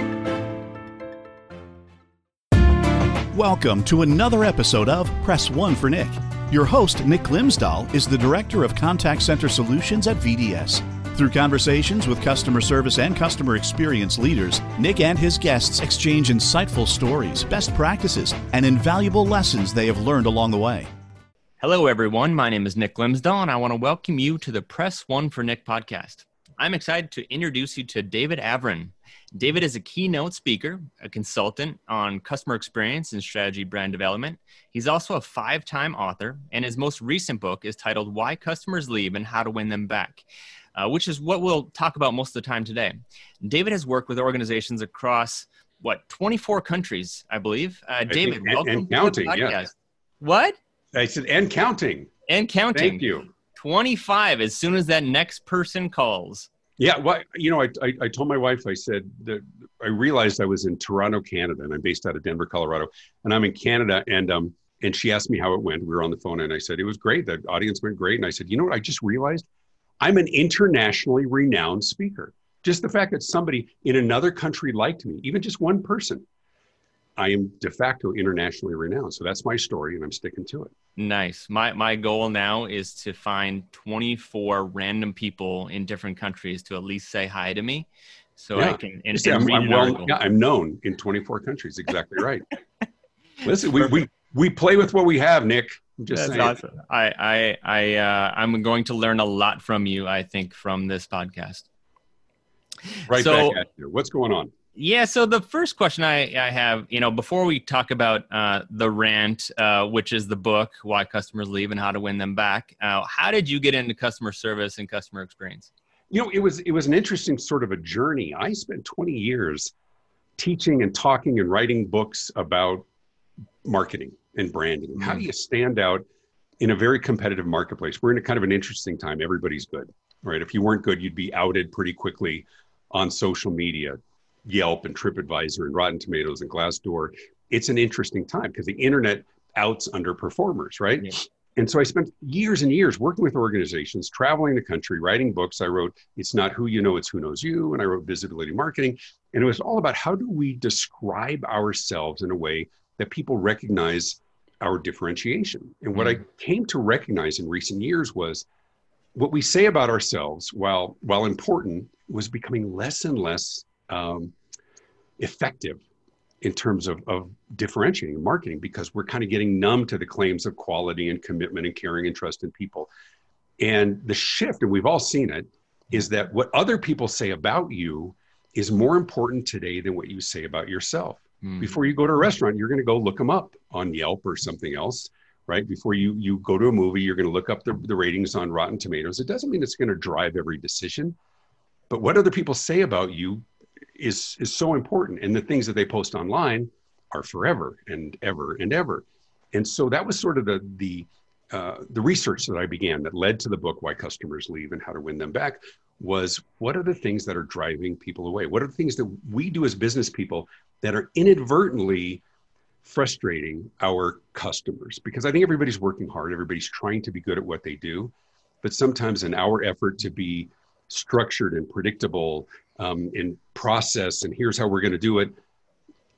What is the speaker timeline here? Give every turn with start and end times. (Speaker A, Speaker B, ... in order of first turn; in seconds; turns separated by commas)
Speaker A: 3.3-20.9, Speaker B: 21.6-50.5, Speaker C: 48.1-49.6, Speaker C: 50.9-52.1, Speaker B: 52.3-56.5, Speaker C: 52.7-53.3, Speaker C: 56.8-69.5, Speaker C: 70.0-76.2, Speaker C: 77.2-80.7, Speaker B: 81.0-90.2, Speaker C: 88.5-92.5, Speaker C: 93.4-96.6, Speaker B: 96.1-101.7, Speaker B: 103.0-103.6, Speaker C: 103.1-104.5, Speaker B: 104.7-115.7, Speaker C: 116.1-119.7, Speaker C: 120.4-122.8, Speaker C: 123.6-126.0, Speaker B: 125.0-125.2, Speaker C: 126.6-158.4, Speaker B: 155.9-156.2, Speaker C: 159.1-164.3, Speaker C: 165.2-165.8, Speaker C: 166.4-172.9, Speaker C: 173.6-191.2, Speaker B: 181.4-181.8, Speaker C: 191.9-212.2, Speaker C: 212.8-225.3